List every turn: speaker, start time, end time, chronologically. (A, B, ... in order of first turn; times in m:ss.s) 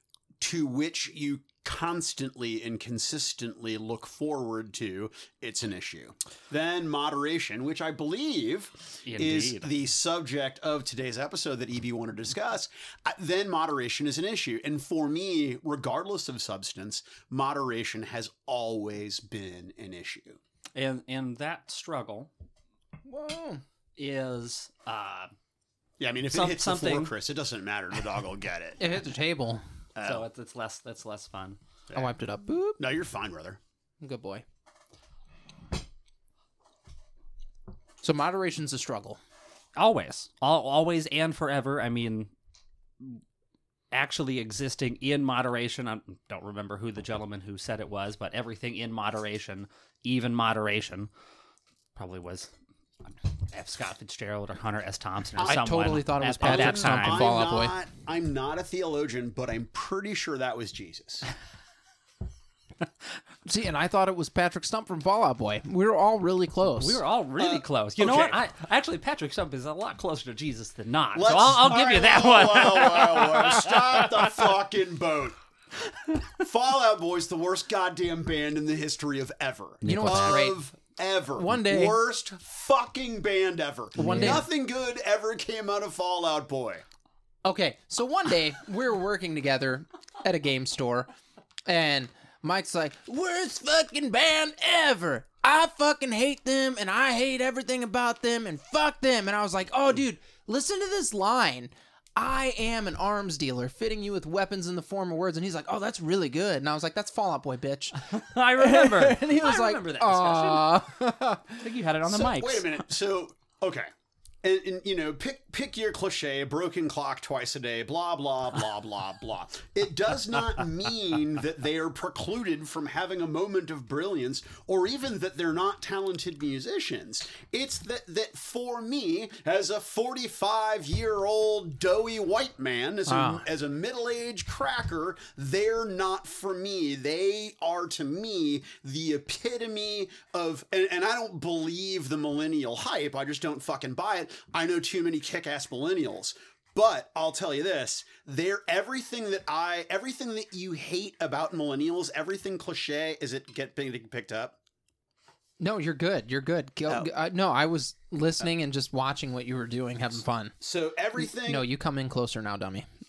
0:00.4-0:20.4 A
0:09.0-0:09.7 B
0:20.8-0:22.3 B
0:23.0-0:23.6 C
0:24.0-0:25.3 B
0:26.0-0:28.8 A
0:26.3-0:27.1 B
0:28.8-0:29.6 C
0:30.0-0:30.2 A
0:30.0-0:31.6 B
0:31.9-0:32.8 C
0:32.8-0:33.6 A
0:34.0-0:34.4 C
0:38.0-0:39.2 C
0:39.8-0:42.3 B
0:43.9-0:51.1 B
0:51.9-0:52.5 B
0:53.0-0:57.2 B
0:55.4-1:01.3 A
0:55.4-0:57.7 C
1:03.4-1:07.0 C
1:06.8-1:14.3 B
1:07.4-1:08.4 A
1:11.1-1:15.4 A
1:16.3-1:26.8 A
1:19.8-1:20.4 B
1:19.8-1:20.6 C
1:21.4-1:22.0 C
1:24.0-1:24.5 C
1:24.0-1:24.4 B
1:27.4-1:31.1 C
1:31.6-1:51.6 C
1:48.0-1:50.8 B
1:51.6-1:52.7 B
1:52.1-1:53.9 A
1:54.4-2:34.6 A
2:13.1-2:13.4 C
2:35.6-2:40.5 C
2:40.6-2:41.7 A
2:41.2-2:42.9 C